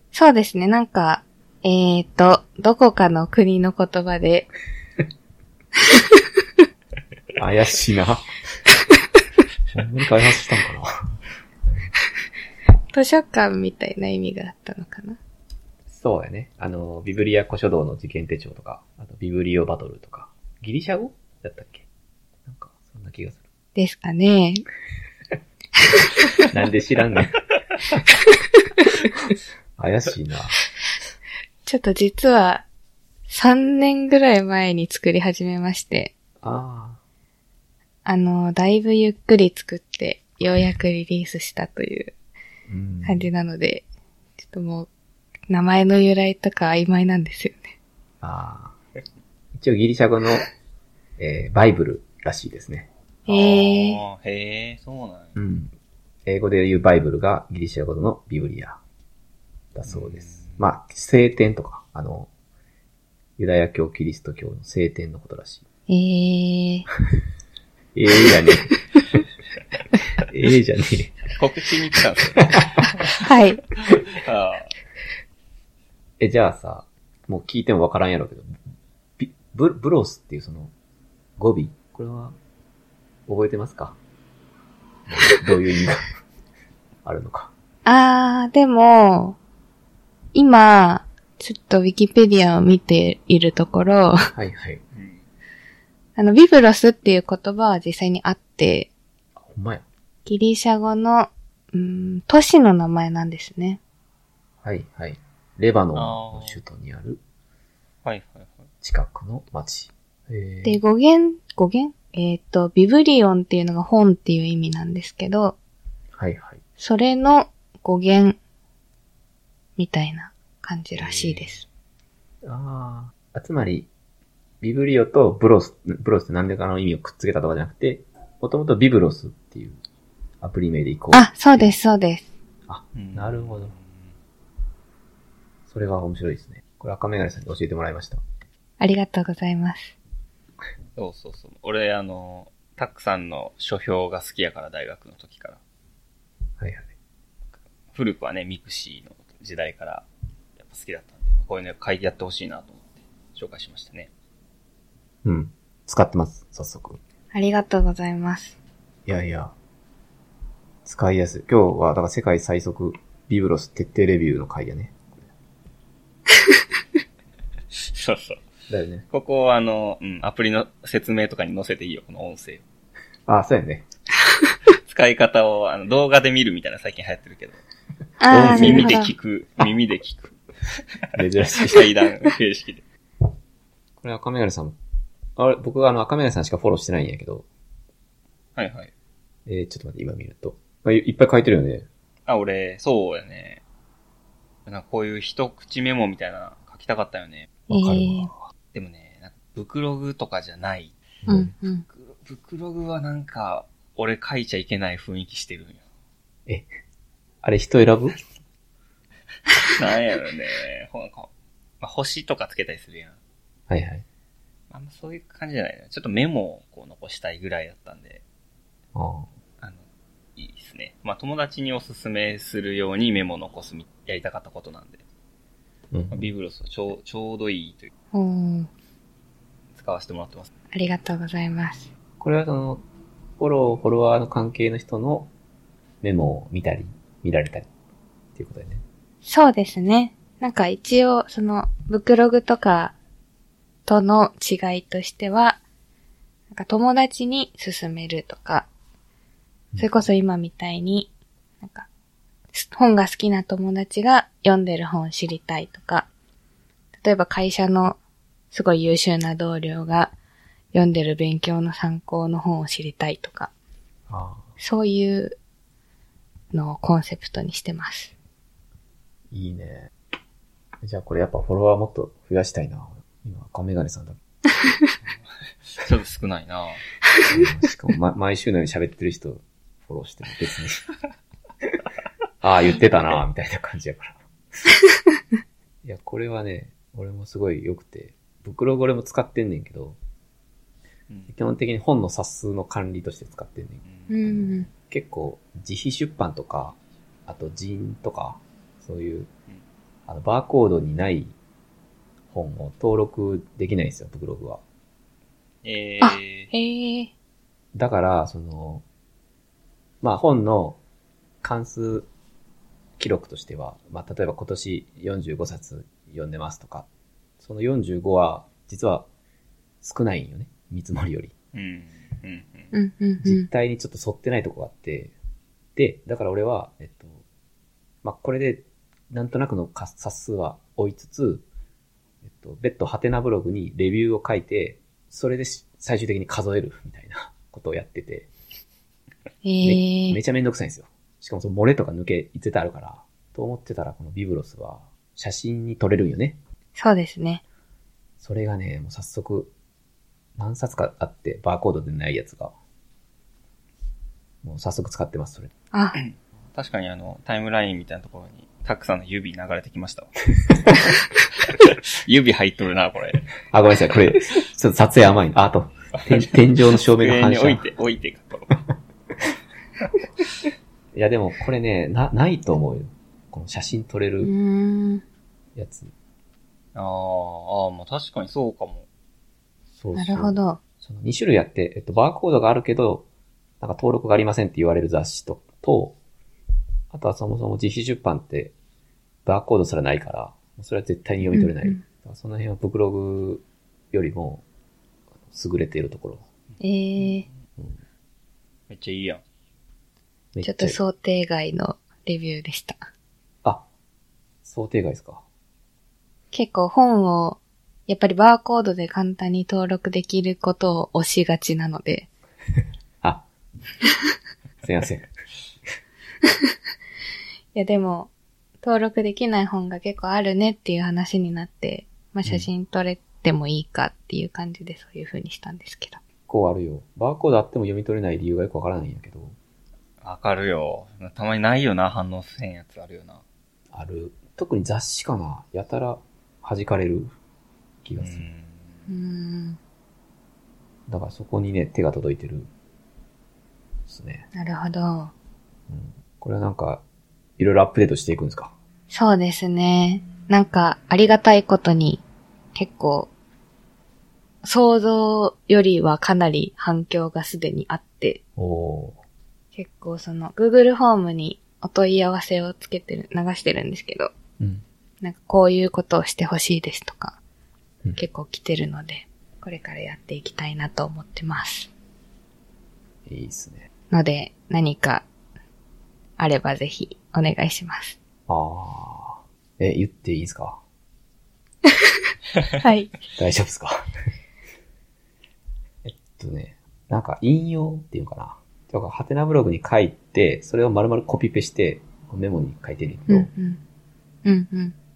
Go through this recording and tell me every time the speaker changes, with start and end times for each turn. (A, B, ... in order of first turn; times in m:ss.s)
0:00.1-0:04.5 A
0:07.3-0:08.3 B
0:09.7-0:10.9 B
0:12.9-0:15.2 A
0:15.9-0:21.8 B
0:22.4-0:23.4 B
0:23.8-0:24.6 A
0:26.4-0:27.5 B
0:29.8-0:30.6 B
0:31.6-0:32.6 A
0:33.3-0:36.1 A
0:36.4-0:37.0 B
0:38.0-0:42.1 A
0:42.7-0:43.3 B
0:43.0-0:43.8 A
0:44.4-0:44.9 A
0:45.5-0:47.7 A
0:48.2-0:48.7 B
0:49.5-0:50.5 B
0:51.2-0:52.9 B
0:53.2-0:54.0 A
0:53.3-0:55.4 C
0:55.4-0:55.7 B
0:56.2-0:58.8 B
0:59.7-1:02.3 B
0:59.9-1:00.6 C
1:03.4-1:05.6 B
1:05.9-1:06.9 A
1:07.9-1:08.8 B
1:10.2-1:11.2 B
1:11.3-1:13.2 C
1:12.4-1:12.8 B
1:13.2-1:13.6 A
1:13.8-1:14.7 C
1:16.2-1:18.6 B
1:19.2-1:20.7 B
1:21.4-1:22.4 B
1:23.3-1:24.0 B
1:25.1-1:26.1 B
1:27.0-1:27.5 B
1:27.8-1:29.4 A
1:30.3-1:34.3 A
1:34.3-1:34.8 B
1:34.9-1:35.2 C
1:36.2-1:38.9 A
1:39.4-1:39.8 B
1:40.2-1:43.8 A
1:44.6-1:47.2 B
1:45.9-1:46.6 C
1:48.0-1:48.6 C
1:48.8-1:50.8 B
1:50.6-1:55.6 A
1:56.1-1:56.6 B
1:56.8-1:58.4 A
1:59.8-2:01.6 A
2:01.1-2:01.4 B
2:02.4-2:03.9 B
2:04.6-2:09.8 B
2:10.4-2:11.7 B
2:11.1-2:12.3 A
2:12.7-2:13.7 B
2:12.9-2:14.0 C
2:15.7-2:18.2 B
2:18.8-2:19.9 A
2:21.0-2:25.6 C
2:26.6-2:26.9 B
2:27.9-2:30.0 C
2:30.6-2:34.1 C
2:35.2-2:37.0 B
2:37.3-2:38.6 A
2:39.0-2:39.5 B
2:40.8-2:45.3 B
2:47.7-2:48.4 C
2:48.7-2:49.0 B
2:49.1-2:52.6 C
2:53.3-2:53.8 B
2:54.7-2:57.6 C
2:58.2-2:59.1 A
2:58.3-2:59.0 B
2:58.4-3:00.8 C
3:01.1-3:01.9 B
3:01.6-3:02.8 C
3:04.0-3:04.8 B
3:05.4-3:07.4 B
3:08.6-3:08.9 C
3:09.4-3:11.9 B
3:12.3-3:13.6 C
3:14.6-3:17.5 C
3:17.7-3:18.4 B
3:17.7-3:18.3 A
3:18.7-3:21.0 C
3:21.2-3:21.5 B
3:21.3-3:21.8 A
3:21.9-3:25.8 C
3:27.4-3:28.2 B
3:29.6-3:31.3 C
3:31.8-3:33.2 C
3:33.7-3:34.0 B
3:34.7-3:38.2 C
3:38.9-3:39.3 B
3:40.4-3:45.0 C
3:45.9-3:46.3 B
3:46.1-3:47.9 C
3:48.1-3:48.7 A
3:49.7-3:50.5 C
3:50.7-3:51.9 A
3:52.2-3:52.8 B
3:53.4-3:55.3 B
3:56.0-3:57.7 B
3:58.3-3:58.8 B
3:59.2-4:03.0 A
4:03.8-4:05.6 A
4:06.5-4:08.7 A
4:09.8-4:11.9 A
4:12.5-4:16.1 A
4:17.0-4:18.0 A
4:18.5-4:20.1 A
4:20.7-4:23.5 A
4:24.1-4:24.5 B
4:24.6-4:25.4 A
4:26.5-4:28.1 A
4:29.3-4:29.9 B
4:30.8-4:34.2 B
4:35.6-4:36.8 C
4:37.3-4:40.8 B
4:42.4-4:44.2 B
4:45.8-4:50.0 B
4:51.3-4:59.3 B
4:54.1-4:54.7 A
5:00.1-5:01.3 B
5:02.3-5:04.6 B
5:05.6-5:06.5 C
5:06.0-5:07.1 A
5:07.7-5:08.8 B
5:10.0-5:10.8 B
5:11.4-5:12.1 B
5:13.0-5:16.9 B
5:17.4-5:19.1 B
5:19.8-5:21.3 B
5:21.5-5:22.7 C
5:22.7-5:23.5 A
5:23.2-5:25.1 B
5:25.8-5:27.2 B
5:28.0-5:31.4 B
5:32.2-5:38.3 B
5:39.4-5:40.2 A
5:39.6-5:46.4 B
5:46.8-5:47.4 A
5:48.2-5:49.5 B
5:50.4-5:52.5 B
5:54.4-5:55.5 B
5:55.7-5:56.0 A
5:56.0-6:00.2 C
6:01.4-6:03.3 C
6:03.4-6:07.7 B
6:06.0-6:08.6 C
6:10.9-6:14.3 B
6:14.2-6:15.0 A
6:15.5-6:15.9 B
6:16.7-6:18.9 C
6:19.8-6:23.1 B
6:19.9-6:20.6 A
6:23.6-6:26.0 B
6:26.9-6:28.5 B
6:29.2-6:34.4 B
6:31.3-6:31.8 A
6:35.3-6:36.2 B
6:36.6-6:37.2 A
6:38.7-6:39.2 C
6:40.3-6:40.8 B
6:40.4-6:42.8 A
6:44.4-6:45.2 B
6:46.3-6:52.1 A
6:54.6-6:55.1 B
6:57.5-6:58.1 A
6:58.6-7:06.0 A
7:06.3-7:09.4 B
7:10.0-7:13.2 C
7:13.7-7:17.1 B
7:17.8-7:18.2 B
7:18.0-7:18.7 C
7:18.9-7:19.6 A
7:20.9-7:22.5 B
7:23.9-7:24.3 B
7:24.3-7:25.1 A
7:25.7-7:26.8 B
7:27.4-7:28.5 B
7:28.9-7:32.0 A
7:32.5-7:33.1 A
7:34.4-7:38.2 A
7:38.4-7:39.0 B
7:39.5-7:44.1 A
7:44.4-7:44.6 B
7:45.0-7:47.2 A
7:48.0-7:51.7 A
7:53.0-7:53.7 B
7:53.9-7:55.0 A
7:56.2-7:58.0 A
7:58.3-8:00.6 B
8:02.6-8:02.9 A
8:03.1-8:03.9 B
8:05.8-8:13.3 B
8:13.1-8:13.6 A
8:14.2-8:14.7 A